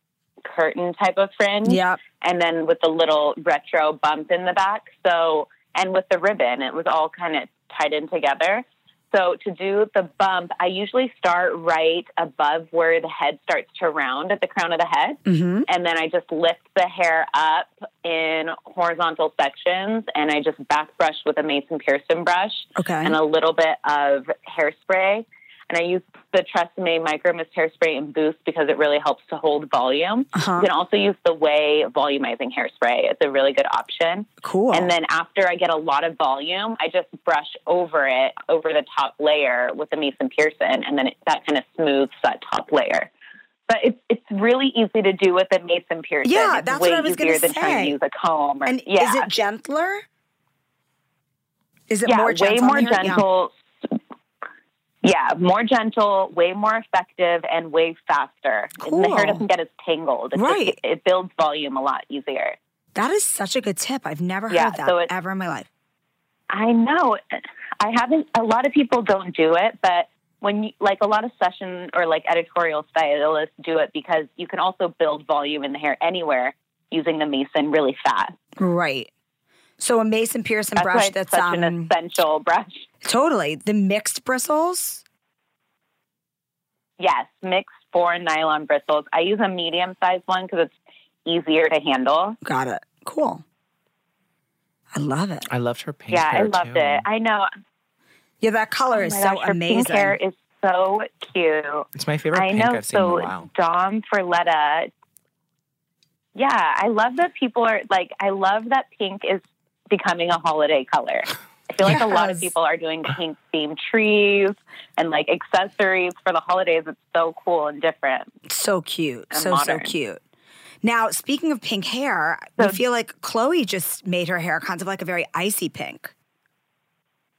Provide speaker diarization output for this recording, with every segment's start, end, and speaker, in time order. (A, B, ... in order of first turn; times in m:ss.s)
0:00.4-0:43.1 A
0:01.6-0:02.0 B
0:15.2-0:15.7 B
0:22.8-0:23.2 B
0:30.3-0:30.7 B
0:34.4-0:34.9 B
0:43.7-0:49.3 A
0:46.2-0:48.0 B
0:48.6-0:50.0 B
0:51.9-0:53.2 B
0:52.0-0:54.0 A
0:55.0-1:02.6 A
0:58.8-0:59.4 B
1:00.3-1:00.8 B
1:02.9-1:05.7 B
1:04.5-1:05.1 A
1:06.5-1:18.3 A
1:18.6-1:19.1 B
1:19.8-1:21.9 B
1:20.8-1:22.9 A
1:23.0-1:25.0 B
1:27.0-1:30.7 A
1:31.2-1:32.4 A
1:32.4-1:33.4 B
1:34.9-1:35.5 B
1:35.5-1:37.0 C
1:36.1-1:37.5 A
1:38.4-1:40.2 B
1:38.9-1:44.9 A
1:41.9-1:43.5 C
1:46.3-1:58.3 A
1:51.8-1:52.5 B
1:58.5-2:00.2 B
1:59.3-1:59.9 A
2:00.8-2:06.1 B